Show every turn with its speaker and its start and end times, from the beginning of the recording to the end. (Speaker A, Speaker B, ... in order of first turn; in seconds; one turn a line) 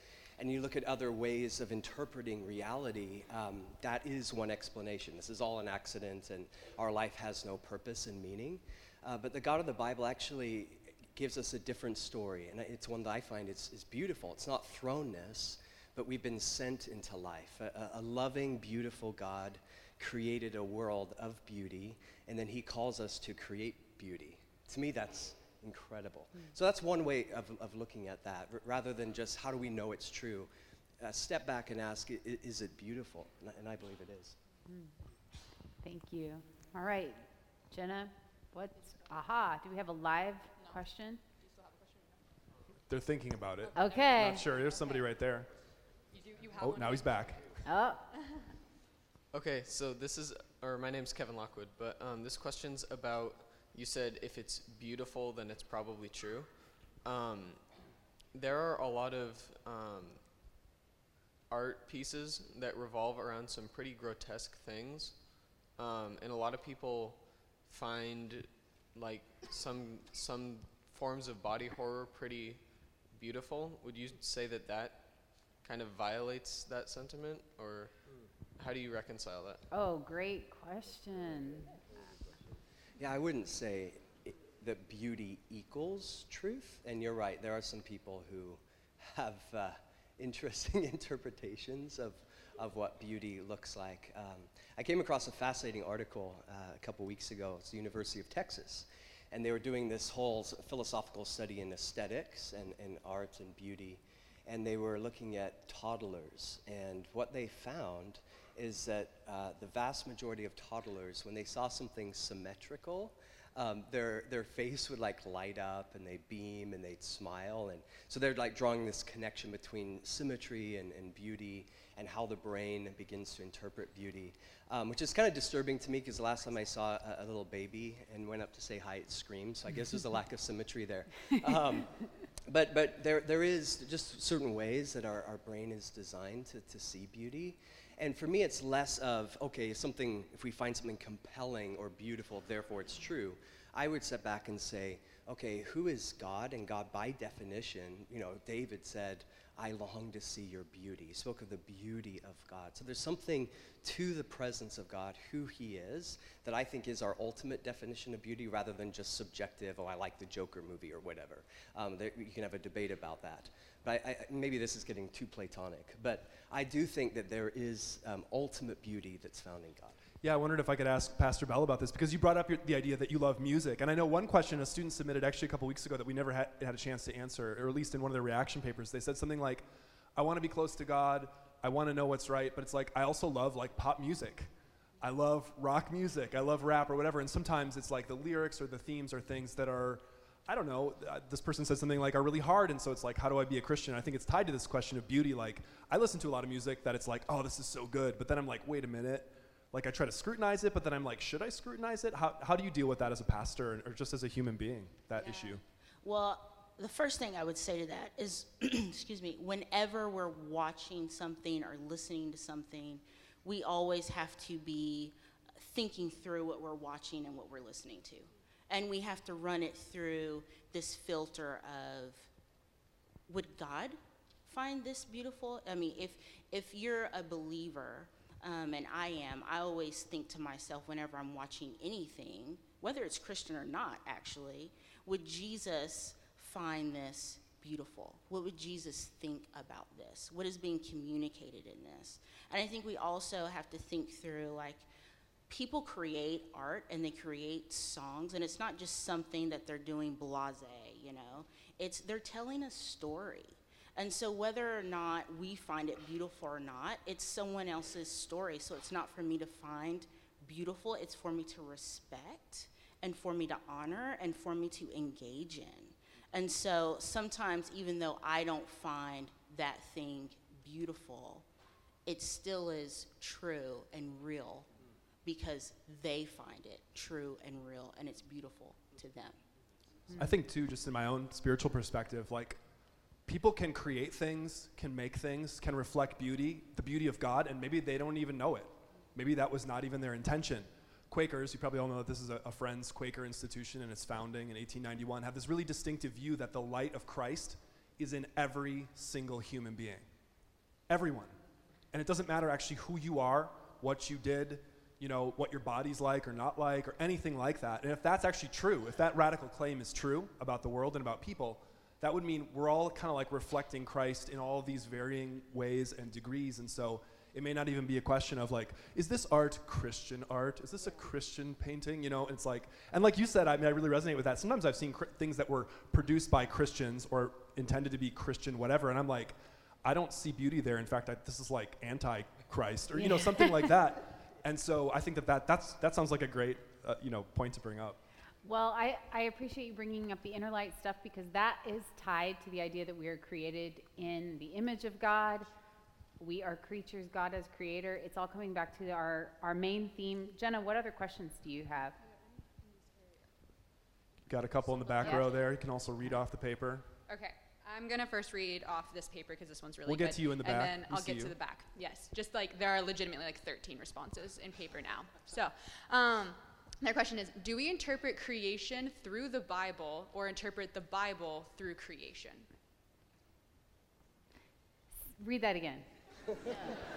Speaker A: 0.4-30.5
Speaker A: 31.0-34.4
Speaker B: 35.8-41.2
Speaker C: 42.9-45.5
Speaker B: 43.8-44.4
Speaker D: 44.0-44.3
Speaker D: 46.1-47.3
Speaker C: 46.6-47.4
Speaker B: 47.6-48.0
Speaker E: 49.3-57.7
Speaker E: 58.3-60.4
Speaker E: 61.5-79.6
Speaker B: 79.7-81.8
Speaker A: 83.0-170.0
Speaker C: 170.2-205.6
Speaker F: 206.0-222.3
Speaker F: 223.3-244.9
Speaker F: 245.5-271.5
Speaker F: 272.1-274.7
Speaker F: 275.2-279.4
Speaker C: 280.2-282.6
Speaker C: 283.3-300.1
Speaker C: 300.9-301.4
Speaker C: 301.9-338.0
Speaker B: 332.9-333.7
Speaker B: 338.4-345.5
Speaker B: 346.2-352.0
Speaker C: 354.3-356.9
Speaker D: 357.1-372.5
Speaker C: 359.9-361.4
Speaker B: 375.2-375.9